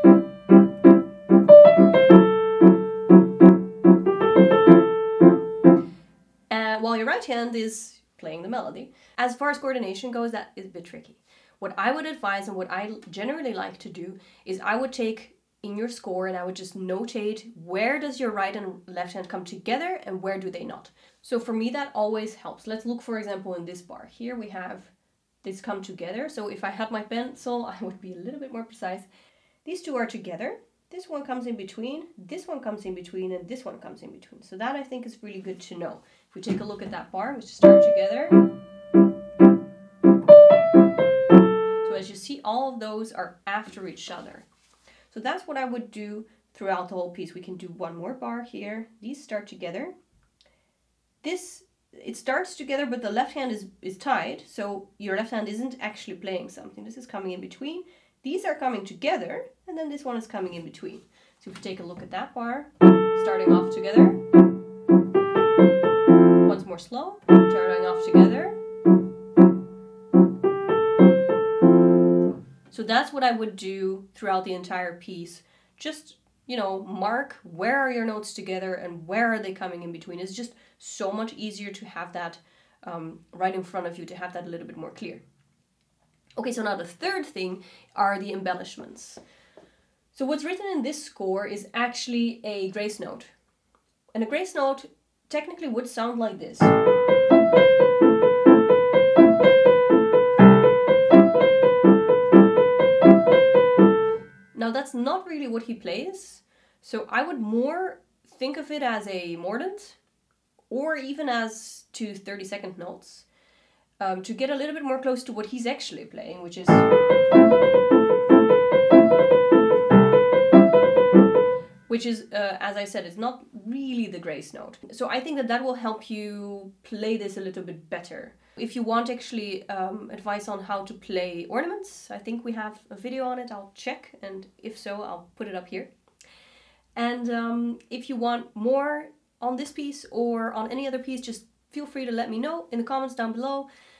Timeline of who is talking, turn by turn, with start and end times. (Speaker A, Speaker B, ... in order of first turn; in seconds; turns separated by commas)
Speaker A: 6.5-24.9, Speaker A: 25.4-29.1, Speaker A: 29.6-38.4, Speaker A: 41.8-44.5, Speaker A: 45.1-49.9, Speaker A: 51.2-64.2, Speaker A: 66.4-68.6, Speaker A: 72.7-85.2, Speaker A: 86.4-89.2, Speaker A: 90.1-93.3, Speaker A: 94.1-96.8, Speaker A: 104.5-110.0, Speaker A: 110.7-113.2, Speaker A: 114.0-116.9, Speaker A: 121.9-135.9, Speaker A: 136.9-143.7